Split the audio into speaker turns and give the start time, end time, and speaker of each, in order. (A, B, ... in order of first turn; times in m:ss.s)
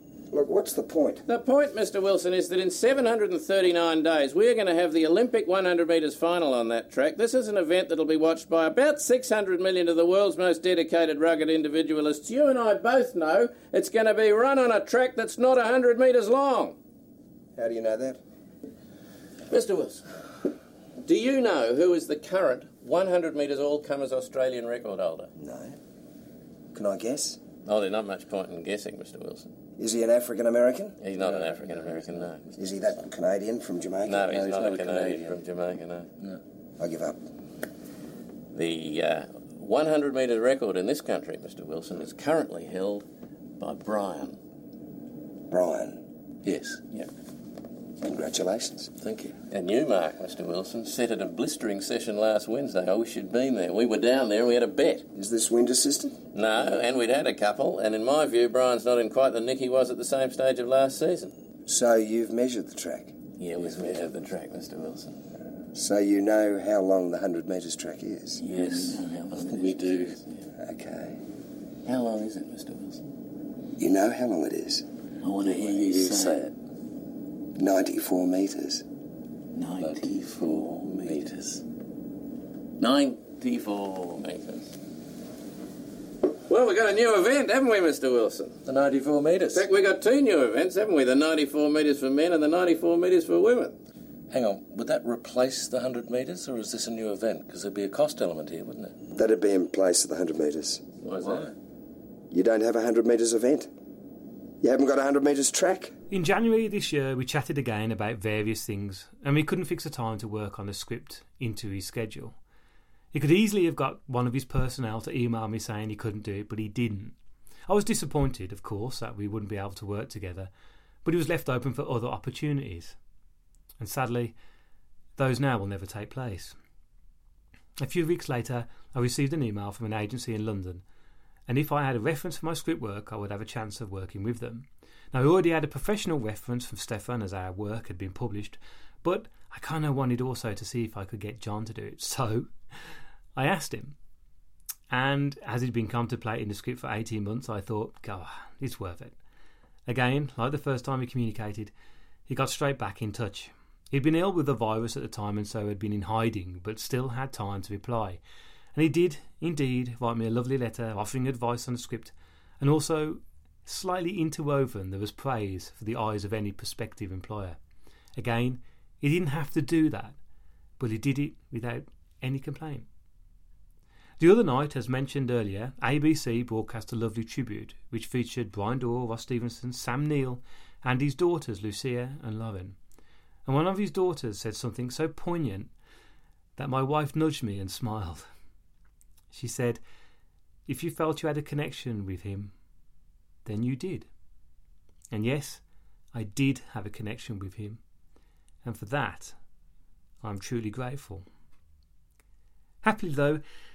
0:00.3-0:01.2 A
0:01.3-0:16.8 B
0:17.6-0:18.2 A
0:19.5-0:20.0 B
0:21.1-0:25.3 B
0:25.4-0:25.8 A
0:26.7-0:27.4 A
0:27.6-0:29.5 B
0:29.8-0:31.0 A
0:31.0-0:32.5 B
0:32.6-0:34.4 A
0:34.0-0:36.1 B
0:34.3-0:35.4 C
0:36.8-0:37.2 A
0:38.5-0:43.1 B
0:43.6-0:44.4 B
0:45.5-0:46.0 A
0:46.4-0:46.8 C
0:48.0-0:48.9 A
0:49.0-0:49.3 C
0:49.5-0:55.0 B
0:55.2-0:56.2 A
0:56.3-1:01.3 B
1:01.7-1:03.2 A
1:03.4-1:05.2 B
1:05.7-1:08.4 A
1:08.4-1:10.3 B
1:08.5-1:10.1 C
1:10.6-1:11.2 A
1:11.9-1:13.0 B
1:13.8-1:14.8 A
1:15.2-1:16.4 B
1:15.5-1:16.5 C
1:17.6-1:18.8 A
1:19.6-1:21.6 B
1:19.8-1:21.4 C
1:22.8-1:24.7 B
1:26.5-1:28.6 B
1:28.6-1:29.7 C
1:29.5-1:33.8 B
1:34.3-1:39.0 C
1:39.2-1:40.8 A
1:41.0-1:41.5 B
1:42.3-1:43.7 A
1:44.6-1:45.9 A
1:46.1-1:52.4 D
1:53.1-1:57.2 D
1:57.7-2:00.5 D
2:01.0-2:03.0 D
2:03.8-2:04.3 D
2:05.2-2:06.6 D
2:07.8-2:10.8 D
2:11.5-2:22.5 D
2:23.4-2:24.0 D
2:24.9-2:29.2 D
2:29.9-2:31.7 D
2:32.3-2:38.2 D
2:38.8-2:47.6 D
2:48.2-2:50.2 D
2:50.8-2:52.9 D
2:54.2-3:02.8 D
3:03.5-3:05.7 D
3:06.6-3:08.3 D
3:09.3-3:09.8 D
3:10.7-3:12.5 D
3:13.4-3:14.1 D
3:15.1-3:15.6 D
3:16.1-3:17.8 D
3:18.6-3:19.4 D
3:20.2-3:21.3 D
3:22.8-3:23.4 D